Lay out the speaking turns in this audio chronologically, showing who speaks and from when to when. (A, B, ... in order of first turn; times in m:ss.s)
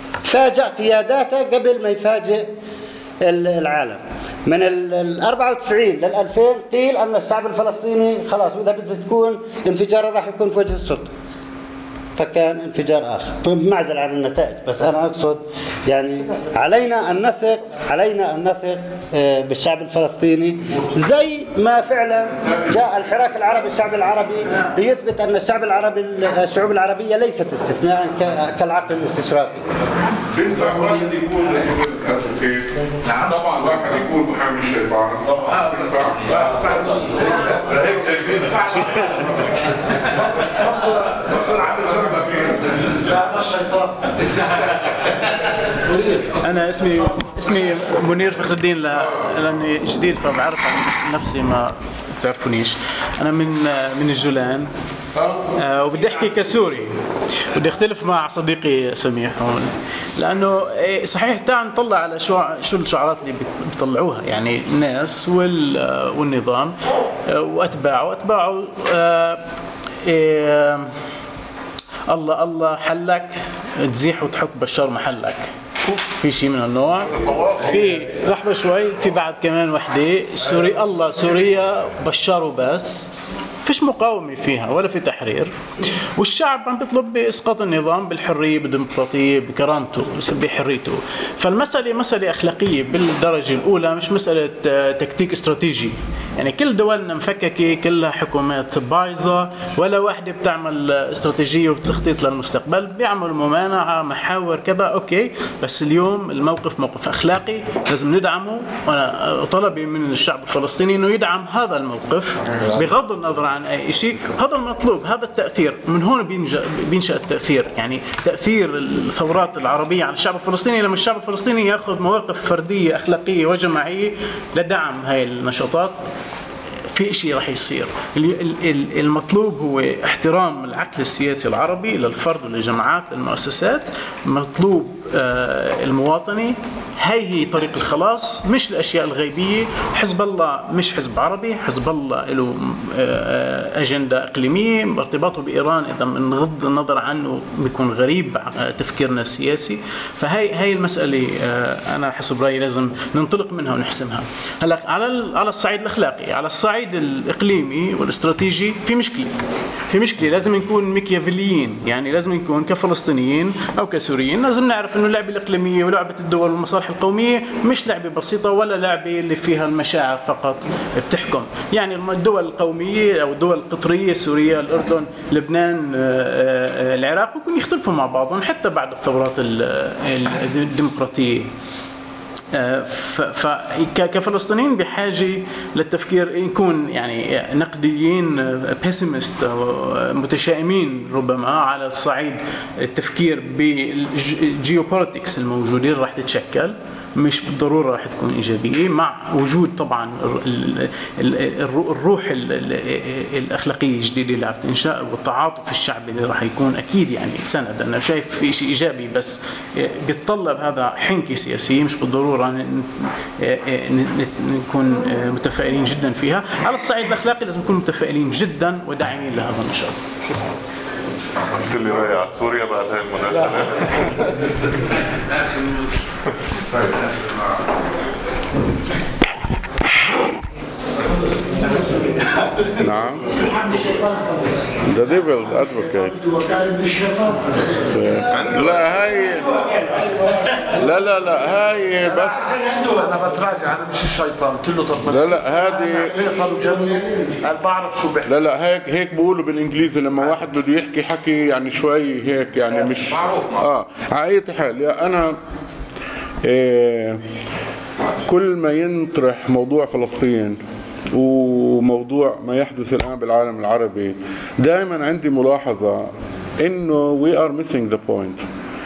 0:00.2-0:02.5 A
0:03.2-0:11.1 A
0:12.2-0:29.7 A
0:30.3-0:37.1 B
0:37.7-0:38.6 B
0:41.4-0:42.6 B
0:43.1-0:44.0 C
0:46.1-0:54.7 D
0:55.6-0:56.9 D
0:57.5-1:06.8 D
1:07.3-1:09.4 D
1:10.0-1:10.9 D
1:12.1-1:23.1 D
1:23.6-1:25.5 D
1:26.2-2:06.0 D
2:06.9-2:39.3 D
2:39.9-3:01.5 D
3:02.5-3:40.0 D
3:41.6-3:44.0 E
3:52.8-3:53.3 B
3:54.8-3:56.2 B
3:56.0-3:57.4 C
3:57.9-3:59.7 B
3:58.3-3:58.8 C
4:00.8-4:02.6 B
4:02.0-4:08.3 C
4:05.0-4:06.2 B
4:08.3-4:15.4 B
4:12.6-4:13.6 C
4:16.5-4:17.2 B
4:18.3-4:20.6 B
4:21.1-4:26.1 B
4:26.6-4:28.5 B